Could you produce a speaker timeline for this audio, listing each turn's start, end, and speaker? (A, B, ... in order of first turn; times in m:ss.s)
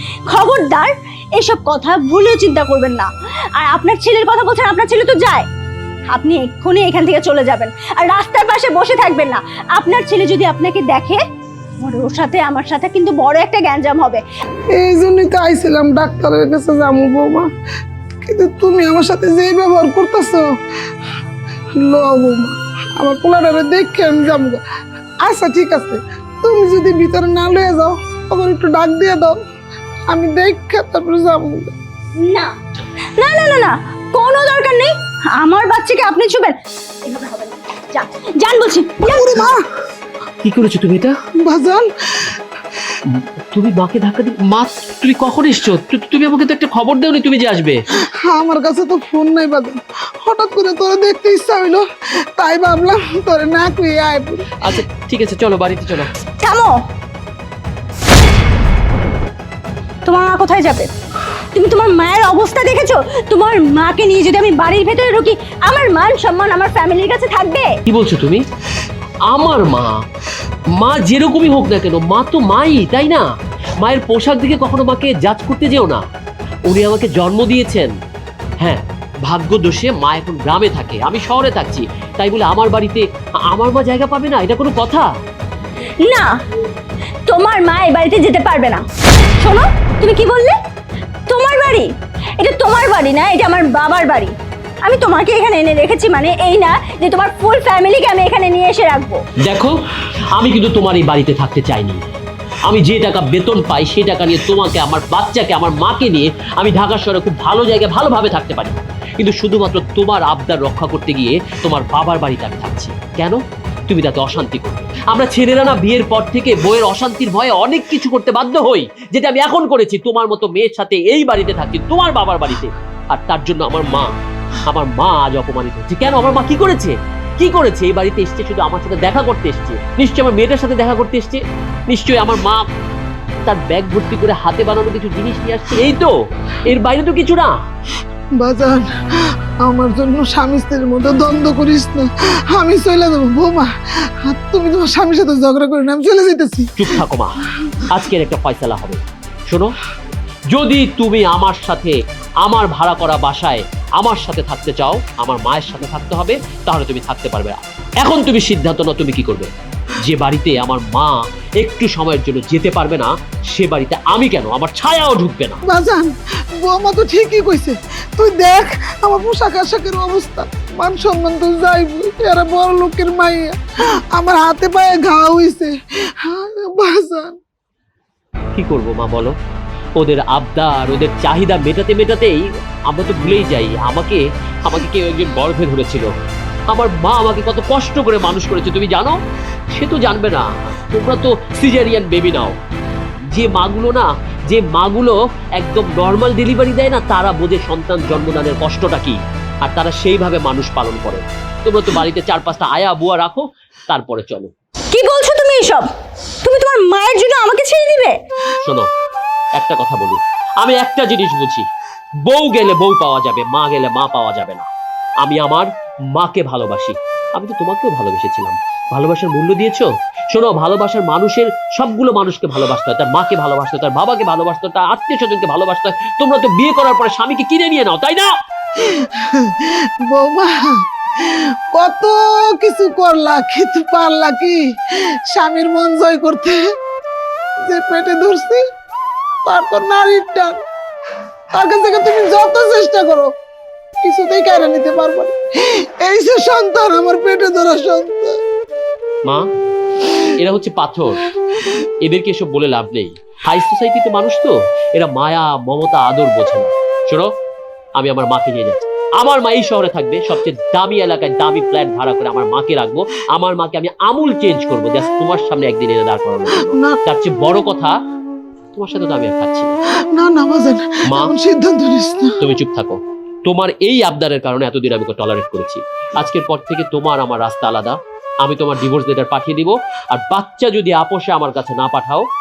0:00.3-0:05.4 A
0:06.1-0:11.2 A
0:11.8-0:14.2 A
0:14.7-0:17.4 B
0:18.2-0:20.4 B
0:21.8-0:24.6 B
0:25.2-0:29.4 B
0:30.1-0:31.7 B
0:32.2-0:32.5 A
0:33.2-0:39.5 A
0:39.0-0:39.6 B
0:40.4-0:41.2 C
0:41.4-0:42.4 B
0:43.0-0:47.8 C
0:48.1-0:51.8 B
0:52.4-0:54.5 B
0:54.6-0:56.1 C
0:56.4-0:56.8 A
1:00.0-1:00.9 A
1:01.5-1:07.8 A
1:07.8-1:08.4 C
1:09.3-1:10.0 C
1:10.8-1:13.2 C
1:13.8-1:16.0 C
1:16.7-1:17.9 C
1:18.6-1:25.1 C
1:26.0-1:26.3 A
1:27.3-1:28.8 A
1:29.4-1:30.6 A
1:31.3-1:39.2 A
1:39.4-1:39.8 C
1:40.3-1:42.0 C
1:42.6-2:04.1 C
2:04.7-2:12.7 C
2:13.4-2:16.1 C
2:16.6-2:17.5 C
2:18.4-2:18.9 B
2:19.6-2:23.7 B
2:24.2-2:27.0 B
2:26.8-2:27.3 C
2:27.8-2:29.8 C
2:30.5-2:45.6 C
2:45.6-2:53.6 B
2:54.1-2:57.4 B
2:58.5-2:59.3 C
3:00.0-3:06.1 C
3:06.7-3:09.2 C
3:09.7-3:12.5 C
3:13.3-3:24.5 C
3:24.9-3:25.9 A
3:26.4-3:28.2 A
3:29.6-3:31.6 C
3:32.2-3:34.7 C
3:35.2-3:48.3 C
3:48.8-3:56.7 B
3:57.6-3:58.6 B
3:59.4-4:00.6 B
4:01.5-4:03.3 B
4:04.0-4:08.3 B
4:10.3-4:11.2 C
4:12.0-4:17.3 C
4:18.0-4:27.9 C
4:26.5-4:27.0 B
4:28.7-4:29.7 C
4:30.1-4:32.4 B
4:32.4-4:42.2 C